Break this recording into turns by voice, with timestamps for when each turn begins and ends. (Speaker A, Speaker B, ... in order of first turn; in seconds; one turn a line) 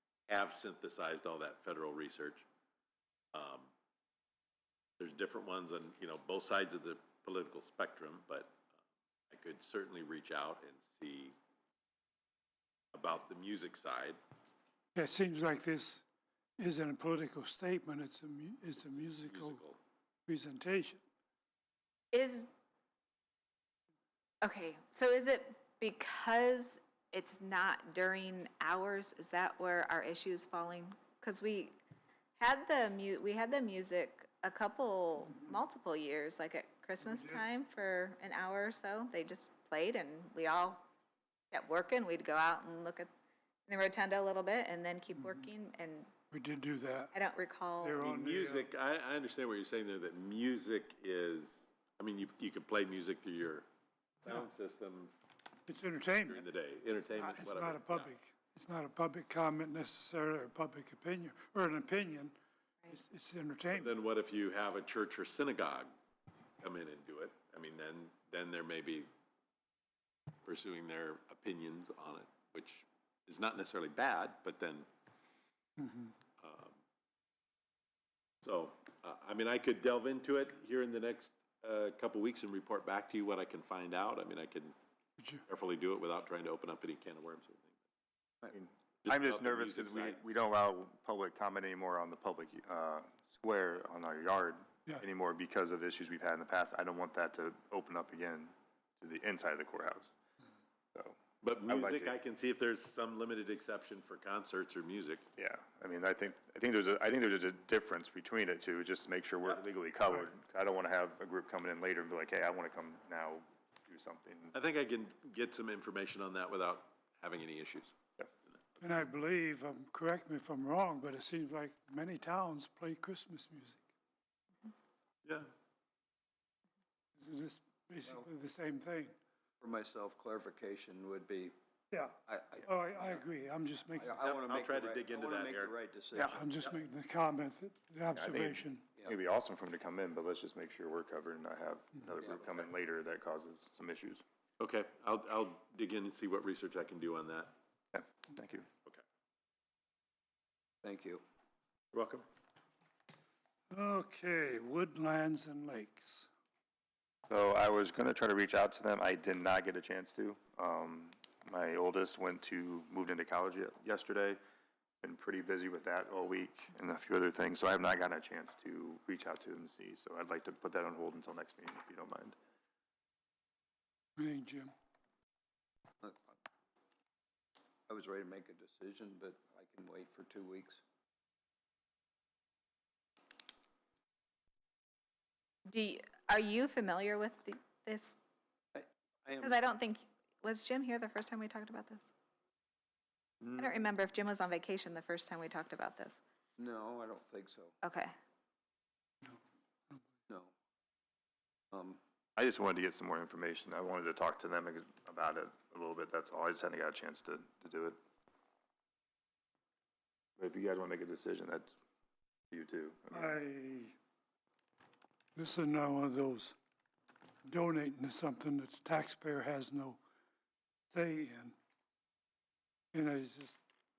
Speaker A: 0.3-2.5
Speaker A: 3.3-3.7
Speaker A: 5.0-8.6
Speaker A: 9.3-11.3
Speaker A: 12.9-14.2
Speaker B: 15.0-16.1
Speaker B: 16.6-19.6
Speaker A: 19.0-19.8
Speaker B: 20.3-21.0
Speaker C: 22.1-22.5
Speaker C: 24.4-31.7
Speaker C: 32.4-40.9
Speaker B: 37.0-37.4
Speaker C: 41.5-43.1
Speaker C: 43.7-46.1
Speaker B: 45.2-45.5
Speaker B: 46.3-47.1
Speaker C: 47.1-48.0
Speaker B: 47.8-48.7
Speaker A: 48.0-53.7
Speaker A: 54.2-55.1
Speaker B: 55.7-56.4
Speaker A: 56.3-58.1
Speaker B: 57.1-62.4
Speaker B: 62.9-64.0
Speaker A: 63.7-65.9
Speaker A: 66.6-69.1
Speaker A: 70.5-74.9
Speaker B: 75.8-76.1
Speaker A: 76.4-76.8
Speaker A: 78.4-84.8
Speaker A: 85.5-87.8
Speaker D: 88.5-100.2
Speaker A: 89.0-90.2
Speaker D: 100.9-102.1
Speaker A: 101.4-105.2
Speaker D: 105.4-114.5
Speaker A: 114.5-118.0
Speaker B: 118.8-123.8
Speaker B: 127.2-129.2
Speaker E: 129.6-131.5
Speaker B: 131.9-134.2
Speaker E: 132.2-133.2
Speaker E: 133.9-136.6
Speaker A: 134.2-135.8
Speaker B: 136.1-138.9
Speaker D: 138.1-144.2
Speaker E: 142.2-142.6
Speaker A: 144.6-147.6
Speaker D: 147.9-148.7
Speaker E: 150.8-151.2
Speaker A: 151.9-152.2
Speaker B: 153.7-156.3
Speaker D: 157.3-164.4
Speaker D: 165.0-172.4
Speaker B: 174.2-174.7
Speaker E: 177.9-180.8
Speaker C: 185.7-188.2
Speaker E: 188.8-189.6
Speaker C: 189.4-192.1
Speaker D: 193.4-193.8
Speaker C: 193.6-196.2
Speaker E: 196.6-197.8
Speaker C: 197.8-198.1
Speaker E: 200.3-200.5
Speaker E: 201.7-202.0
Speaker D: 202.4-208.0
Speaker D: 210.4-211.8
Speaker D: 212.5-213.4
Speaker B: 213.1-213.9
Speaker B: 215.4-216.6
Speaker B: 217.5-220.0
Speaker B: 220.9-221.6
Speaker B: 222.9-223.6